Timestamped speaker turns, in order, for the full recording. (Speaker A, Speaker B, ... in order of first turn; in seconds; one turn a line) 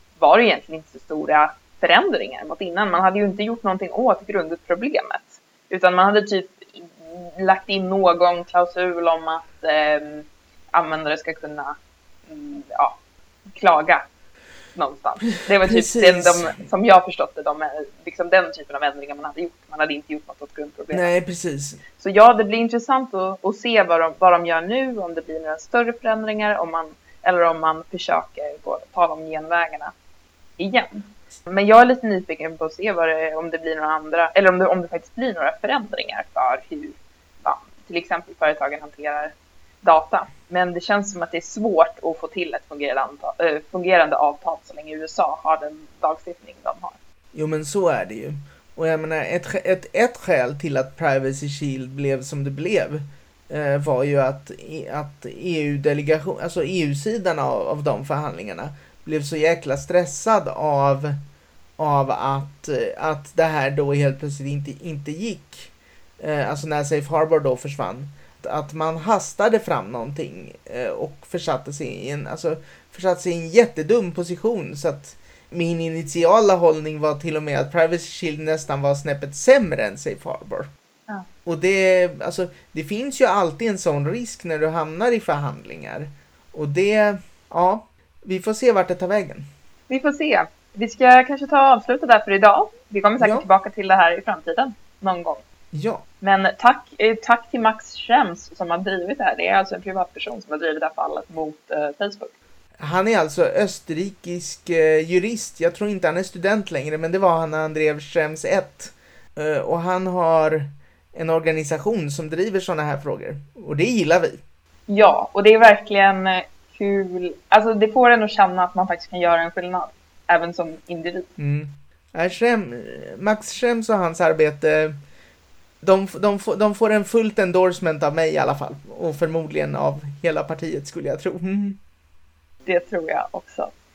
Speaker A: 0.2-11.7
Speaker A: 12.3-13.0
Speaker A: 13.6-14.0
Speaker A: 14.7-21.1
Speaker B: 15.6-16.6
Speaker B: 20.9-21.8
Speaker A: 22.0-29.9
Speaker A: 30.6-47.0
Speaker B: 47.3-61.2
Speaker B: 61.8-80.7
Speaker B: 81.5-89.5
Speaker A: 89.9-95.4
Speaker B: 93.2-93.5
Speaker B: 95.7-96.0
Speaker A: 96.2-102.3
Speaker B: 102.8-114.4
Speaker A: 114.9-121.3
Speaker B: 121.4-124.9
Speaker B: 125.8-131.8
Speaker A: 132.6-133.7